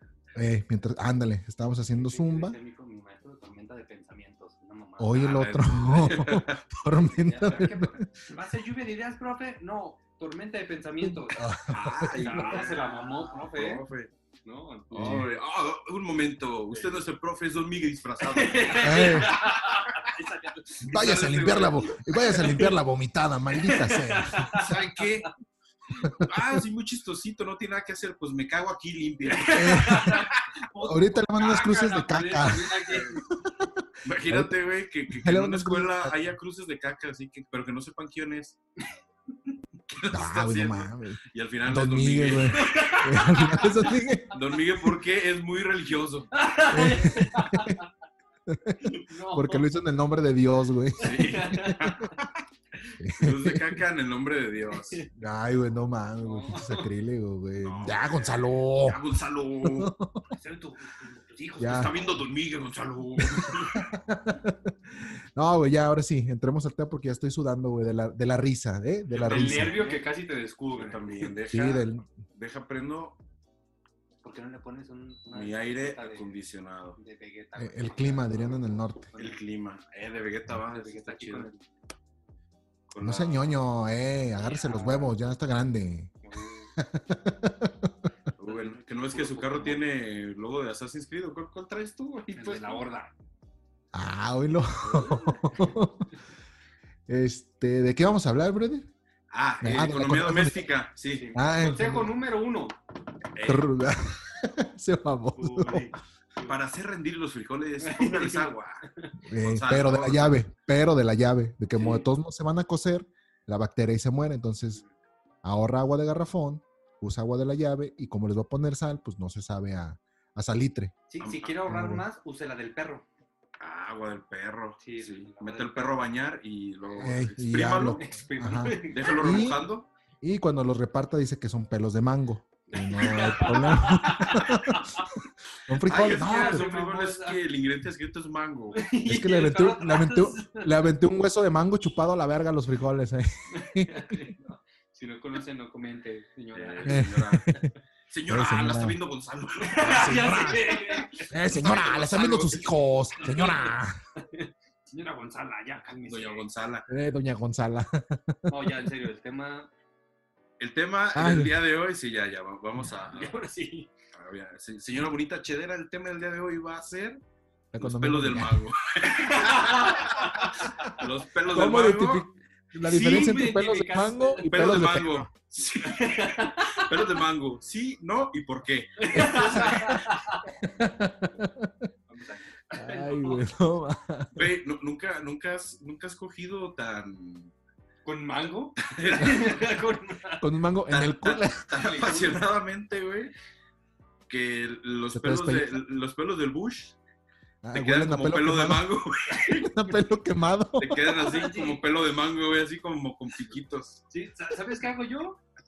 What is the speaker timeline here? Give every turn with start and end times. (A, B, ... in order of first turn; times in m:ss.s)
0:00.3-0:02.6 A
0:01.9-0:06.2 B
0:05.0-0:08.0 A
0:05.2-0:06.6 C
0:06.9-0:11.6 B
0:07.4-0:07.7 C
0:11.0-0:12.7 A
0:11.7-0:14.1 C
0:12.1-0:13.8 B
0:14.4-0:15.2 B
0:14.9-0:19.9 C
0:14.9-0:15.3 A
0:18.3-0:22.7 B
0:18.8-0:19.3 A
0:20.8-0:24.6 A
0:23.5-0:24.7 B
0:24.5-0:25.3 C
0:26.0-0:30.4 C
0:26.0-0:26.3 A
0:29.3-0:33.2 B
0:29.6-0:30.2 A
0:30.8-0:34.5 A
0:34.0-0:38.6 C
0:35.1-0:36.1 A
0:39.9-0:43.0 C
0:40.1-0:44.4 A
0:42.5-0:43.9 B
0:44.3-0:46.3 C
0:46.3-0:47.9 B
0:46.7-0:47.8 A
0:48.5-0:51.6 A
0:48.9-0:49.6 B
0:51.0-0:52.2 B
0:51.0-0:52.2 C
0:53.0-0:53.8 A
0:53.2-0:55.0 C
0:54.8-0:55.1 B
0:55.1-0:59.0 A
0:56.2-0:56.9 B
0:57.6-0:59.9 C
0:59.6-1:00.3 A
1:00.3-1:02.1 B
1:01.6-1:01.9 A
1:01.6-1:03.9 C
1:03.7-1:09.8 A
1:09.1-1:10.1 C
1:09.2-1:11.4 B
1:10.7-1:13.2 C
1:11.5-1:12.1 A
1:14.2-1:16.3 B
1:15.3-1:17.0 C
1:17.0-1:18.6 B
1:17.6-1:19.1 A
1:19.1-1:19.4 B
1:19.2-1:21.5 C
1:20.6-1:21.6 B
1:22.9-1:23.5 C
1:23.0-1:26.1 A
1:24.4-1:25.1 B
1:26.2-1:26.7 B
1:26.8-1:28.0 A
1:28.4-1:32.9 C
1:28.4-1:29.8 B
1:32.3-1:33.1 B
1:33.9-1:36.0 A
1:34.8-1:35.3 C
1:35.2-1:35.8 B
1:37.1-1:38.9 A
1:39.3-1:41.3 C
1:39.6-1:40.6 A
1:41.1-1:42.8 B
1:41.3-1:42.1 A
1:43.4-1:43.7 C
1:43.4-1:45.9 A
1:45.4-1:46.6 B
1:46.4-1:48.8 C
1:47.8-1:49.1 B
1:49.2-1:54.8 A
1:49.4-1:50.4 C
1:51.7-1:52.0 B
1:55.4-2:01.0 A
2:01.1-2:03.1 B
2:01.2-2:01.5 C
2:01.6-2:02.0 A
2:03.6-2:08.1 C
2:04.8-2:05.9 B
2:07.0-2:09.6 A
2:08.0-2:09.1 B
2:08.8-2:09.9 C
2:10.2-2:15.0 A
2:12.7-2:15.1 B
2:15.7-2:16.7 A
2:15.8-2:18.8 C
2:16.1-2:17.4 B
2:18.7-2:20.7 B
2:19.0-2:24.2 A
2:23.5-2:27.6 B
2:26.5-2:27.5 C
2:26.8-2:27.7 A
2:28.1-2:32.7 C
2:28.3-2:29.0 A
2:29.6-2:31.3 B
2:29.8-2:30.7 A
2:31.3-2:34.0 A
2:33.2-2:36.4 B
2:36.0-2:36.9 C
2:36.9-2:38.7 A
2:38.5-2:39.7 B
2:40.6-2:43.4 C
2:41.1-2:41.6 A
2:43.1-2:43.9 B
2:44.1-2:47.2 C
2:47.7-2:48.6 A
2:47.8-2:52.3 C
2:49.1-2:50.8 B
2:51.5-2:55.3 A
2:52.8-2:54.8 B
2:52.9-2:53.4 C
2:54.4-3:00.0 C
2:55.8-2:57.0 B
2:59.0-3:00.5 B
2:59.1-3:00.0 A
3:00.6-3:01.9 A
3:02.1-3:03.4 B
3:02.7-3:04.5 A
3:04.4-3:07.5 C
3:08.0-3:10.4 B
3:08.8-3:09.8 C
3:10.4-3:11.6 A
3:10.9-3:13.3 C
3:11.7-3:12.4 B
3:14.3-3:17.0 C
3:15.1-3:15.8 A
3:17.6-3:18.9 A
3:17.7-3:19.7 C
3:19.5-3:21.1 A
3:20.8-3:24.0 C
3:21.2-3:21.8 B
3:24.1-3:25.4 B